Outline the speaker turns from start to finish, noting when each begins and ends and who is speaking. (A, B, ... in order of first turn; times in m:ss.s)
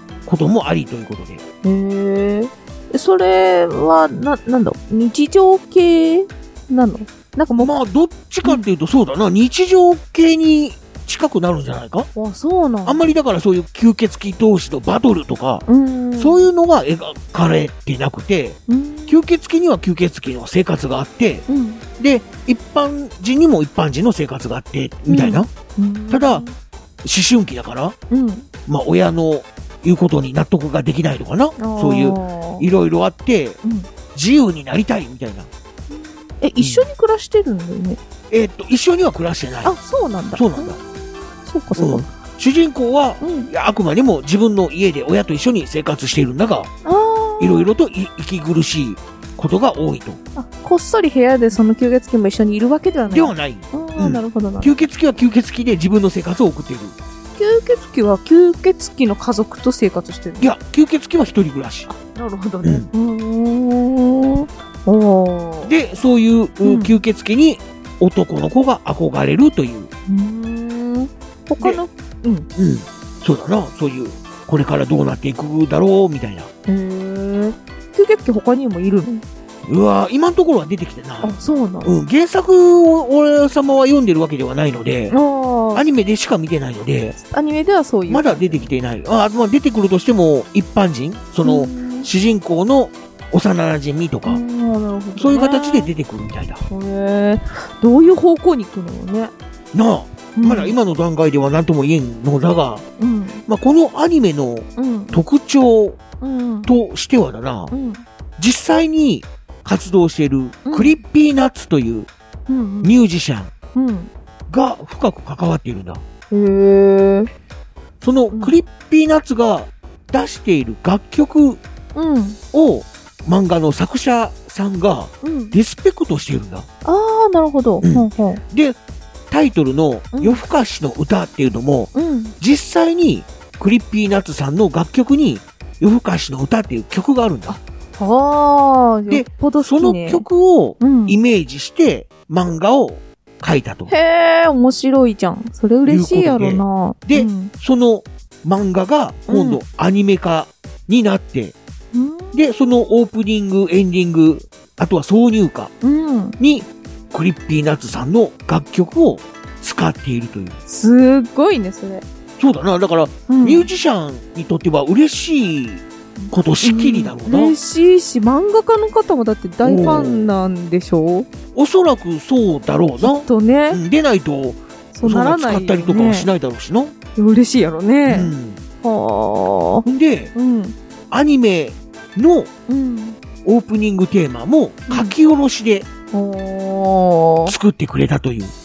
0:00.3-0:01.4 A
0:01.6-0:07.7 B
0:07.6-0:12.1 A
0:12.1-0:13.2 B
0:12.8-0:15.6 A
0:15.7-0:16.5 B
0:16.2-0:21.5 A
0:18.7-0:19.2 B
0:21.5-0:21.8 B
0:22.0-0:25.5 A
0:25.1-0:26.5 B
0:26.1-0:26.5 A
0:27.0-0:28.0 A
0:28.1-0:28.5 B
0:28.7-0:33.6 A
0:31.6-0:32.7 B
0:33.6-0:33.9 B
0:34.1-0:35.5 A
0:35.9-0:38.0 B
0:36.6-0:36.9 A
0:38.3-0:39.8 A
0:39.6-0:40.8 B
0:40.3-0:40.8 A
0:41.4-0:42.1 B
0:41.8-0:46.7 A
0:43.2-0:43.5 B
0:46.8-0:47.7 B
0:47.4-0:50.2 A
0:50.4-0:54.7 B
0:53.1-0:57.0 A
0:57.4-1:00.5 B
1:00.4-1:01.9 A
1:01.9-1:05.8 B
1:02.6-1:02.9 A
1:05.6-1:09.9 A
1:06.6-1:07.0 B
1:10.1-1:12.5 B
1:12.6-1:16.5 A
1:16.7-1:19.2 B
1:19.7-1:25.2 A
1:21.2-1:21.9 B
1:25.1-1:25.9 B
1:25.7-1:27.2 A
1:27.2-1:28.7 B
1:28.1-1:34.4 A
1:31.4-1:32.1 B
1:34.2-1:35.9 B
1:35.2-1:36.6 A
1:36.7-1:39.3 B
1:39.7-1:42.8 A
1:40.4-1:40.8 B
1:43.0-1:43.4 B
1:43.5-1:46.0 A
1:44.8-1:45.2 B
1:46.2-1:46.7 B
1:46.7-1:47.7 A
1:47.7-1:48.0 B
1:48.4-1:52.1 A
1:50.7-1:51.0 B
1:52.5-1:52.9 B
1:52.8-1:53.5 A
1:53.7-1:54.1 B
1:54.5-1:56.0 A
1:56.3-1:57.3 B
1:58.0-2:01.6 A
2:02.0-2:02.4 B
2:02.5-2:06.7 A
2:05.2-2:05.6 B
2:06.8-2:08.4 B
2:07.8-2:08.8 A
2:09.3-2:17.6 A
2:10.1-2:10.4 B
2:11.9-2:12.4 B
2:17.5-2:20.3 B
2:19.1-2:23.9 A
2:20.8-2:21.2 B
2:23.9-2:27.5 B
2:25.9-2:31.6 A
2:29.3-2:29.6 B
2:31.9-2:32.4 B
2:32.3-2:35.7 A
2:35.8-2:36.4 B
2:36.4-2:40.6 A
2:40.7-2:42.0 B
2:42.4-2:47.6 A
2:43.3-2:43.7 B
2:46.2-2:51.3 B
2:49.6-2:50.3 A
2:51.5-2:56.9 A
2:53.0-2:53.8 B
2:54.9-2:56.3 B
2:57.2-3:00.8 B
2:58.1-2:58.6 A
2:59.8-3:00.3 A
3:01.1-3:02.5 A
3:02.7-3:03.2 B
3:03.4-3:05.9 A
3:04.9-3:05.1 B
3:06.1-3:07.6 B
3:07.5-3:08.5 A